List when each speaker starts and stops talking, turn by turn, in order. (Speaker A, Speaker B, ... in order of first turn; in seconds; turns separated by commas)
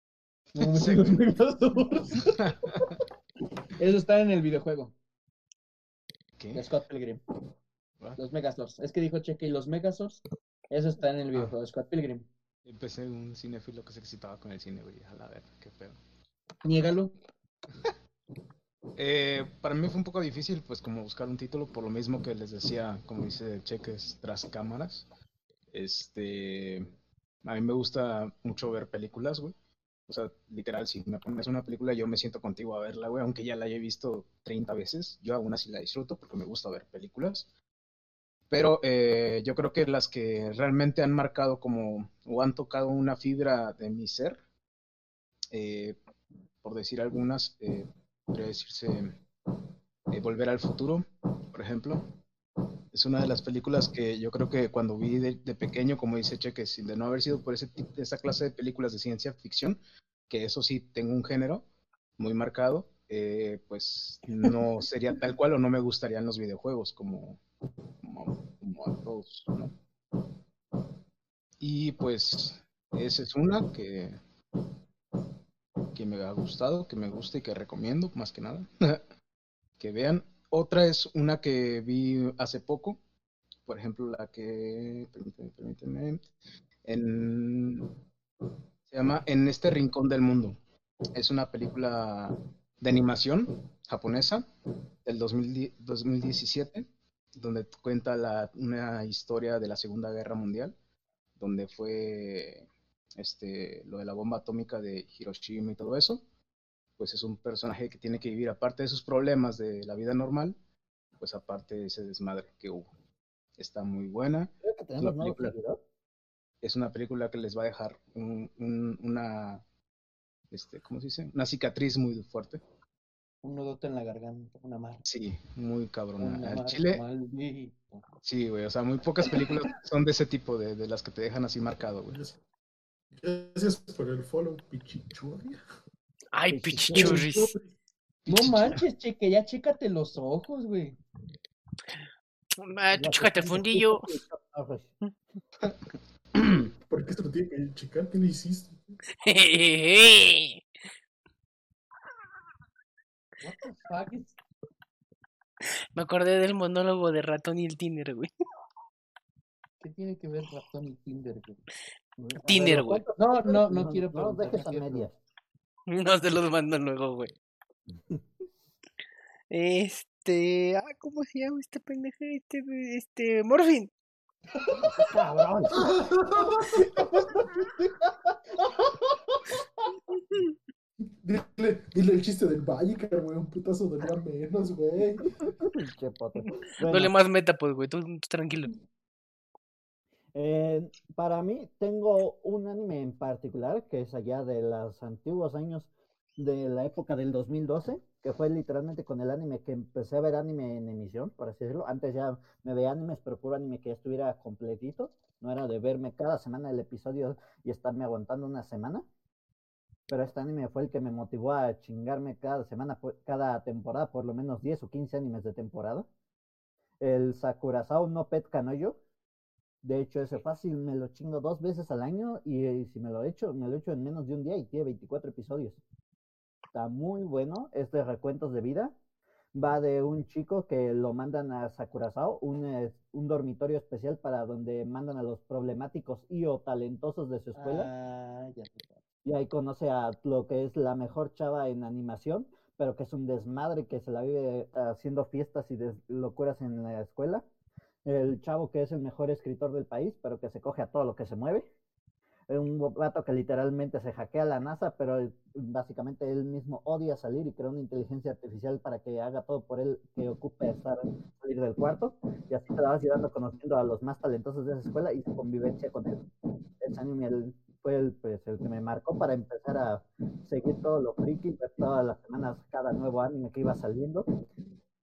Speaker A: 0.6-2.4, Speaker B: 0.7-1.1, Speaker B: 2.4-2.9, Speaker A: 3.8-4.9, Speaker B: 6.4-6.7, Speaker A: 6.5-7.2, Speaker A: 8.2-12.3, Speaker B: 12.7-16.0, Speaker A: 16.6-17.1, Speaker B: 19.0-25.1, Speaker B: 25.7-26.9, Speaker B: 27.4-29.5, Speaker B: 30.1-37.5, Speaker B: 38.5-44.4, Speaker B: 45.5-46.0, Speaker B: 46.6-49.2, Speaker B: 50.1-52.1, Speaker B: 52.9-59.8, Speaker B: 60.3-61.6, Speaker B: 62.2-67.4, Speaker B: 68.0-69.7, Speaker B: 71.6-74.2, Speaker B: 75.9-79.0, Speaker B: 79.8-83.0, Speaker B: 83.7-86.3, Speaker B: 86.8-87.9, Speaker B: 88.9-90.6, Speaker B: 91.2-94.5, Speaker B: 95.0-100.7, Speaker B: 101.4-102.7, Speaker B: 103.2-106.2, Speaker B: 107.0-110.6, Speaker B: 111.2-112.9, Speaker B: 113.6-115.5, Speaker C: 114.6-115.8, Speaker B: 116.6-119.6, Speaker B: 120.5-122.6, Speaker A: 123.4-125.0, Speaker B: 125.1-127.0, Speaker A: 126.2-128.1, Speaker B: 128.2-132.2, Speaker D: 132.1-132.4, Speaker D: 133.1-135.6, Speaker E: 136.3-137.5, Speaker C: 136.5-137.2, Speaker A: 136.9-137.2, Speaker D: 136.9-137.6, Speaker A: 138.3-141.0, Speaker B: 138.3-138.8, Speaker E: 142.6-144.1, Speaker C: 142.9-144.9, Speaker B: 146.4-146.7, Speaker D: 146.5-148.9, Speaker E: 149.2-150.6, Speaker A: 153.4-154.4, Speaker E: 155.9-158.3, Speaker A: 159.8-161.6, Speaker C: 162.2-165.2, Speaker E: 162.4-163.0, Speaker A: 163.2-165.1, Speaker E: 165.9-167.3, Speaker E: 169.5-173.9, Speaker C: 174.8-175.9, Speaker D: 175.7-177.5, Speaker A: 177.0-178.3, Speaker D: 181.2-185.3, Speaker C: 185.6-187.1, Speaker E: 186.8-188.7, Speaker C: 190.3-209.0, Speaker C: 210.1-216.1, Speaker C: 217.0-219.0, Speaker C: 219.8-225.8, Speaker C: 226.7-228.9, Speaker C: 229.5-237.9, Speaker A: 237.6-239.0, Speaker C: 239.2-247.4, Speaker C: 248.1-251.6, Speaker C: 252.5-266.3, Speaker C: 266.8-274.2